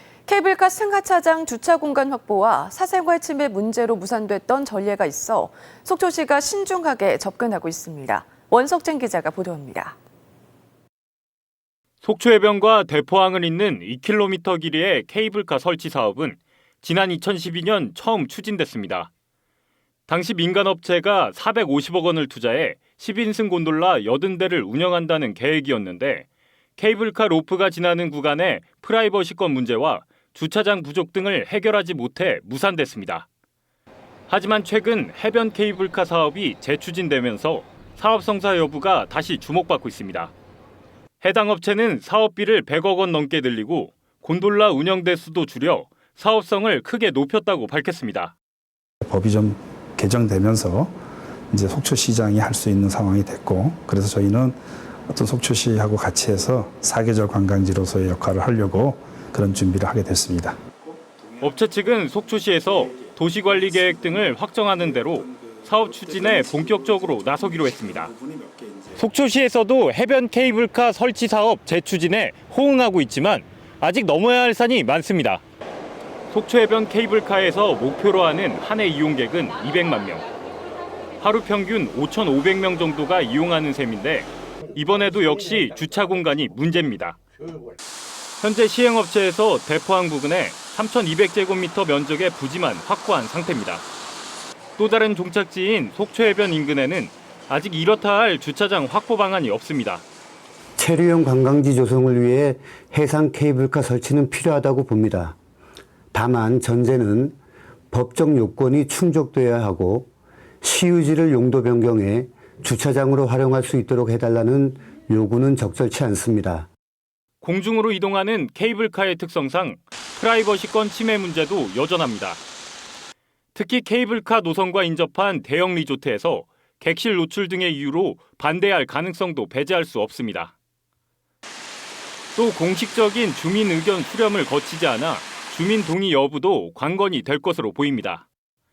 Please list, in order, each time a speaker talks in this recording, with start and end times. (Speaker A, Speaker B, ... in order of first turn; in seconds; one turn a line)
Speaker A: 0.2-9.9
Speaker B: 12.0-19.1
Speaker B: 20.1-26.3
Speaker B: 26.8-33.3
Speaker B: 34.3-40.3
Speaker B: 41.2-48.3
Speaker C: 49.0-50.9
Speaker C: 51.5-61.6
Speaker B: 61.4-68.1
Speaker C: 62.7-69.0
Speaker B: 69.0-75.4
Speaker B: 76.3-80.3
Speaker B: 81.2-87.2
Speaker B: 88.4-93.8
Speaker B: 94.8-100.0
Speaker D: 100.8-105.3
Speaker D: 106.1-107.3
Speaker D: 107.9-110.1
Speaker D: 110.6-116.7
Speaker B: 117.4-122.4
Speaker B: 123.5-130.5
Speaker B: 132.3-138.2